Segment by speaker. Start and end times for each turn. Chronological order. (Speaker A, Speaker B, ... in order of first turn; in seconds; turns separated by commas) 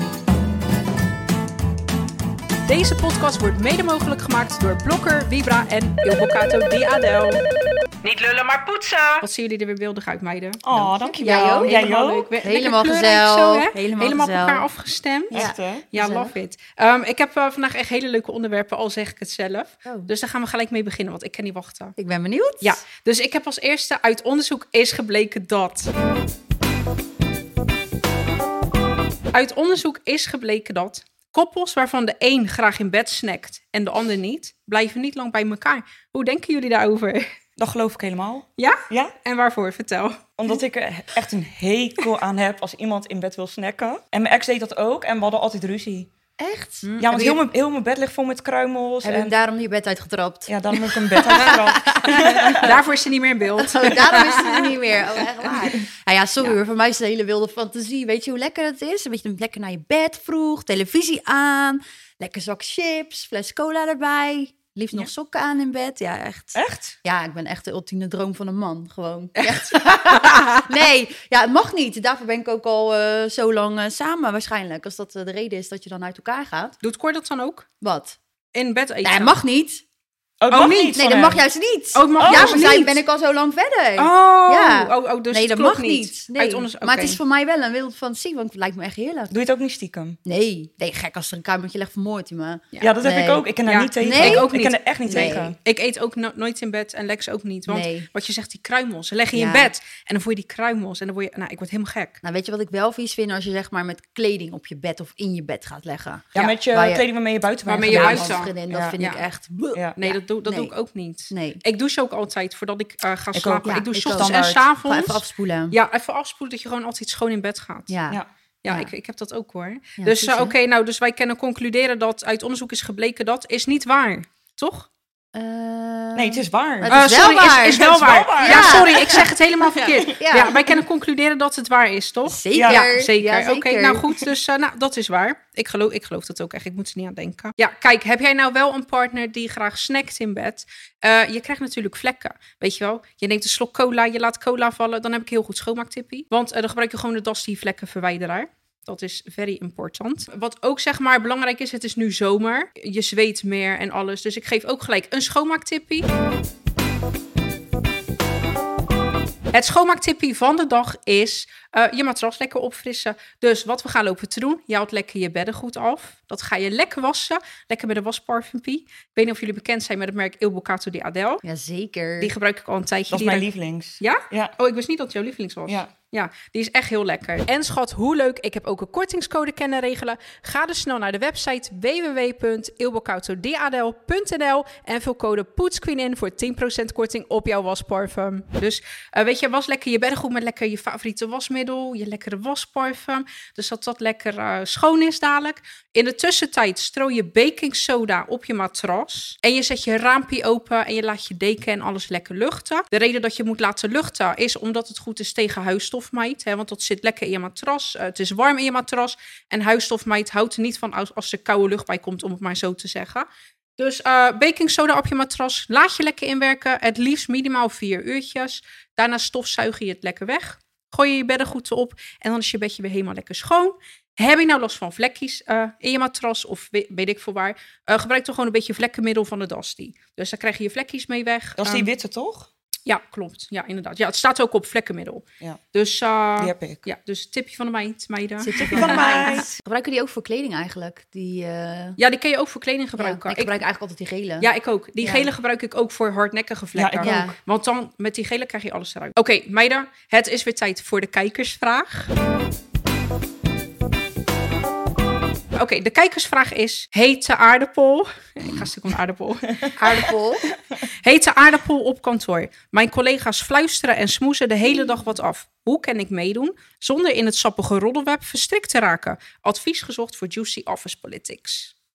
Speaker A: 2.7-7.4, Speaker A: 9.1-10.6, Speaker B: 10.6-12.3, Speaker C: 10.7-11.8, Speaker A: 11.3-21.9, Speaker C: 12.4-14.7, Speaker B: 15.3-15.9, Speaker C: 15.3-16.3, Speaker C: 19.9-20.1, Speaker C: 22.0-22.8, Speaker A: 22.6-25.9, Speaker A: 29.3-37.3, Speaker B: 37.6-39.1, Speaker A: 38.6-40.2, Speaker B: 40.4-46.1, Speaker C: 46.4-47.4, Speaker A: 46.8-47.3, Speaker B: 47.0-49.3, Speaker C: 49.0-52.8, Speaker B: 50.5-52.8, Speaker A: 51.4-54.7, Speaker C: 53.6-76.8, Speaker B: 66.5-67.0, Speaker A: 69.4-70.7, Speaker A: 76.8-77.7, Speaker C: 77.8-78.2, Speaker A: 78.5-79.4, Speaker C: 79.0-79.8, Speaker B: 80.4-81.4, Speaker A: 80.5-81.4, Speaker C: 80.9-89.3, Speaker A: 81.9-83.0, Speaker B: 82.2-82.7, Speaker A: 84.0-87.2, Speaker B: 89.3-90.2, Speaker C: 90.3-93.5, Speaker B: 92.8-95.6, Speaker A: 93.7-102.2, Speaker C: 94.0-94.5, Speaker C: 95.1-95.5, Speaker C: 97.7-98.1, Speaker C: 99.3-99.7, Speaker C: 102.2-107.1, Speaker B: 106.3-109.0, Speaker A: 107.7-109.2, Speaker C: 107.8-110.7, Speaker A: 110.0-118.0, Speaker C: 111.3-111.6, Speaker B: 113.3-114.6, Speaker C: 113.6-115.8, Speaker C: 117.9-118.9, Speaker A: 118.6-124.9, Speaker C: 120.0-120.5, Speaker C: 125.3-130.8, Speaker B: 126.2-129.3, Speaker A: 126.9-156.1, Speaker C: 132.3-134.2, Speaker B: 132.6-132.9, Speaker A: 159.5-171.4, Speaker C: 171.4-172.3, Speaker A: 172.2-173.5, Speaker B: 173.1-174.6, Speaker A: 174.0-213.3, Speaker A: 213.8-231.9, Speaker B: 231.6-232.5, Speaker A: 232.9-239.4, Speaker B: 236.4-236.9, Speaker C: 238.4-242.0, Speaker B: 238.6-239.6, Speaker A: 242.0-243.6, Speaker C: 243.0-244.5, Speaker A: 244.4-252.1, Speaker C: 245.0-245.3, Speaker B: 246.8-247.3, Speaker C: 247.0-247.4, Speaker A: 255.6-259.7, Speaker C: 259.8-260.5, Speaker A: 261.0-271.7, Speaker C: 264.6-265.0